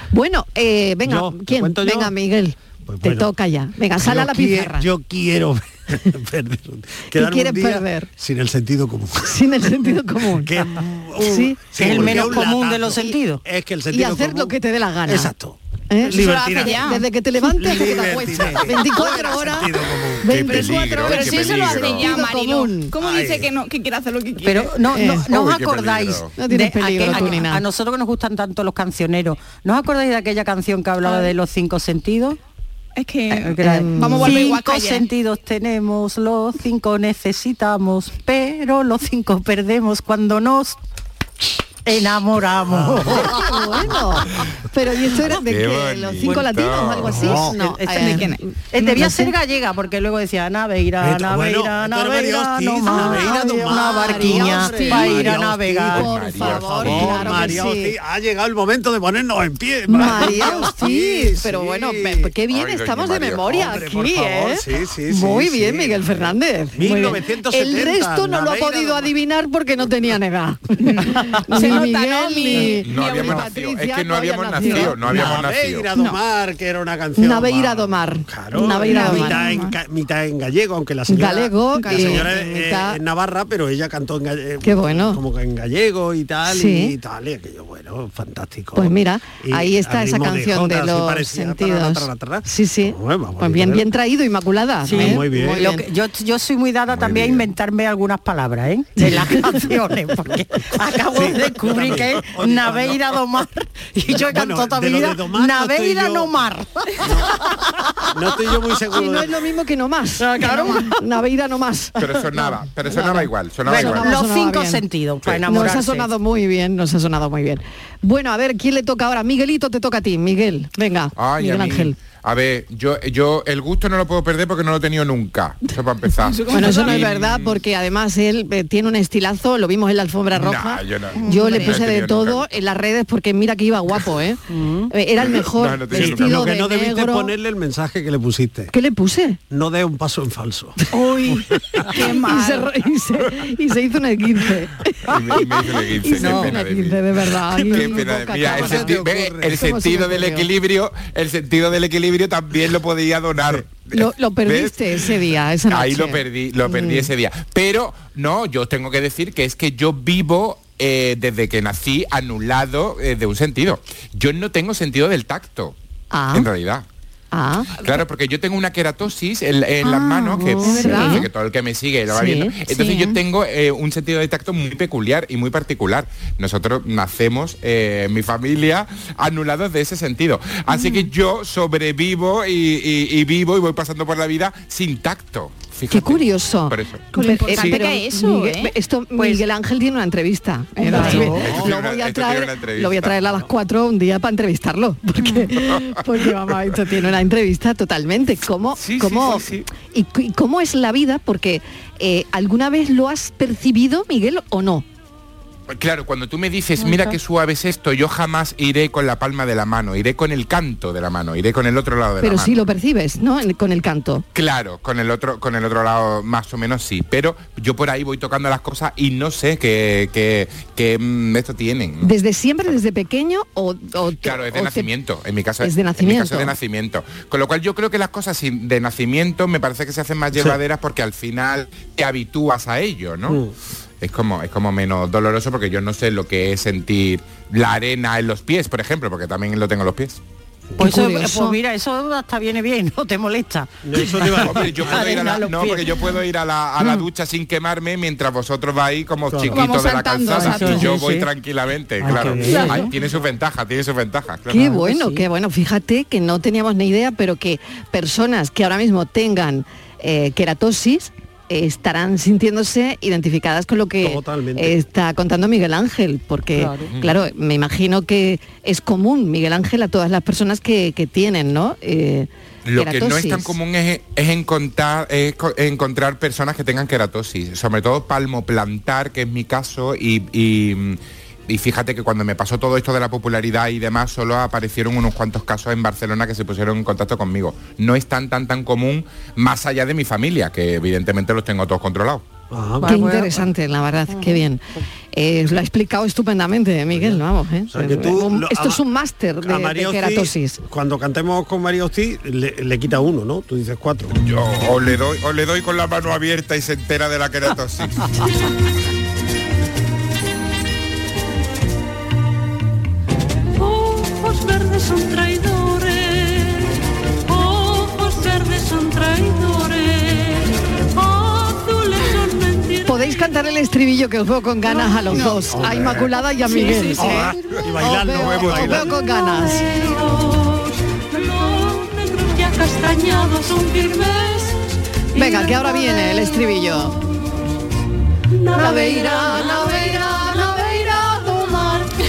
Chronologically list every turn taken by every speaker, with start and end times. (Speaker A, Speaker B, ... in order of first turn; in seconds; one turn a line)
Speaker A: 0.1-4.9
Speaker B: 1.1-2.1
Speaker B: 2.9-3.3
Speaker B: 4.0-9.4
Speaker A: 7.1-8.1
Speaker A: 9.3-10.6
Speaker B: 10.2-16.9
Speaker A: 11.2-12.4
Speaker C: 11.8-13.4
Speaker A: 13.9-15.3
Speaker A: 15.9-22.9
Speaker D: 16.2-17.0
Speaker B: 17.4-21.0
Speaker E: 20.2-22.2
Speaker D: 21.0-24.8
Speaker B: 23.0-23.5
Speaker C: 24.4-32.4
Speaker A: 24.9-25.3
Speaker E: 25.3-26.3
Speaker A: 26.4-27.6
Speaker D: 27.1-27.4
Speaker D: 31.1-31.3
Speaker D: 33.0-35.1
Speaker C: 33.3-40.8
Speaker A: 33.6-34.5
Speaker C: 41.9-43.4
Speaker B: 42.7-43.3
Speaker A: 43.1-49.3
Speaker E: 45.5-47.3
Speaker B: 47.0-47.6
Speaker C: 47.2-56.0
Speaker D: 48.0-49.0
Speaker B: 51.0-62.3
Speaker A: 52.9-57.9
Speaker E: 55.9-57.5
Speaker A: 59.9-75.3
Speaker E: 62.5-63.7
Speaker B: 63.5-69.1
Speaker D: 70.8-73.4
Speaker E: 72.8-75.9
Speaker B: 75.0-93.9
Speaker D: 75.9-76.2
Speaker A: 77.2-79.4
Speaker D: 78.7-79.8
Speaker A: 81.1-83.0
Speaker D: 81.7-82.2
Speaker A: 84.6-85.2
Speaker A: 86.5-87.0
Speaker A: 88.8-95.8
Speaker C: 94.8-107.1
Speaker B: 94.9-95.8
Speaker B: 96.9-97.5
Speaker A: 99.1-99.4
Speaker B: 101.1-103.2
Speaker B: 104.1-106.3
Speaker B: 107.0-107.3
Speaker B: 108.1-109.3
Speaker A: 108.9-114.8
Speaker C: 110.2-111.0
Speaker E: 112.0-114.1
Speaker C: 113.7-116.1
Speaker A: 115.5-122.0
Speaker E: 121.2-127.6
Speaker D: 126.2-127.1
Speaker A: 126.5-137.3
Speaker E: 130.3-132.5
Speaker D: 131.2-131.9
Speaker C: 134.5-134.9
Speaker E: 135.2-136.5
Speaker B: 135.9-138.7
Speaker A: 138.7-139.4
Speaker B: 139.5-140.8
Speaker A: 140.9-149.0
Speaker D: 141.0-142.7
Speaker E: 145.1-155.2
Speaker B: 146.2-146.6
Speaker B: 147.5-149.6
Speaker A: 149.5-150.5
Speaker A: 153.9-157.1
Speaker E: 155.7-165.8
Speaker A: 166.1-166.5
Speaker E: 166.3-166.8
Speaker A: 167.3-167.8
Speaker E: 167.8-187.1
Speaker D: 169.8-171.2
Speaker A: 170.6-171.3
Speaker A: 172.1-172.6
Speaker D: 172.7-173.2
Speaker D: 180.7-181.1
Speaker A: 185.9-204.8
Speaker D: 187.1-188.8
Speaker C: 189.2-189.4
Speaker D: 190.8-191.3
Speaker C: 190.9-191.4
Speaker E: 190.9-193.2
Speaker B: 191.3-191.7
Speaker D: 195.2-195.5
Speaker E: 205.7-212.7
Speaker A: 212.2-214.2
Speaker E: 214.3-222.1
Speaker A: 222.0-224.9
Speaker E: 224.2-233.4
Speaker A: 225.6-226.6
Speaker B: 230.3-230.6
Speaker B: 233.3-233.5
Speaker E: 234.0-240.2
Speaker A: 240.8-241.6
Speaker C: 240.8-245.8
Speaker B: 243.8-245.3
Speaker E: 244.4-254.6
Speaker B: 249.3-249.7
Speaker D: 249.5-250.9
Speaker C: 250.3-251.3
Speaker C: 252.0-252.9
Speaker B: 252.0-253.3
Speaker D: 252.4-252.8
Speaker A: 254.5-273.6
Speaker C: 254.5-255.2
Speaker B: 264.0-264.8
Speaker C: 266.6-266.9
Speaker E: 272.6-292.2
Speaker B: 292.5-293.2
Speaker C: 292.8-293.4
Speaker A: 292.9-294.6
Speaker C: 294.1-294.4
Speaker A: 295.1-300.6
Speaker B: 296.9-298.8
Speaker B: 299.4-304.2
Speaker E: 304.2-308.2
Speaker F: 313.8-316.4
Speaker F: 317.3-320.1
Speaker F: 321.1-322.9
Speaker A: 322.9-329.9
Speaker D: 324.7-325.5
Speaker B: 325.1-326.1
Speaker D: 326.4-327.3
Speaker B: 326.9-328.9
Speaker E: 328.2-328.9
Speaker F: 330.0-330.4
Speaker F: 331.2-334.6
Speaker A: 335.1-337.0
Speaker A: 338.6-341.1
Speaker C: 341.1-341.7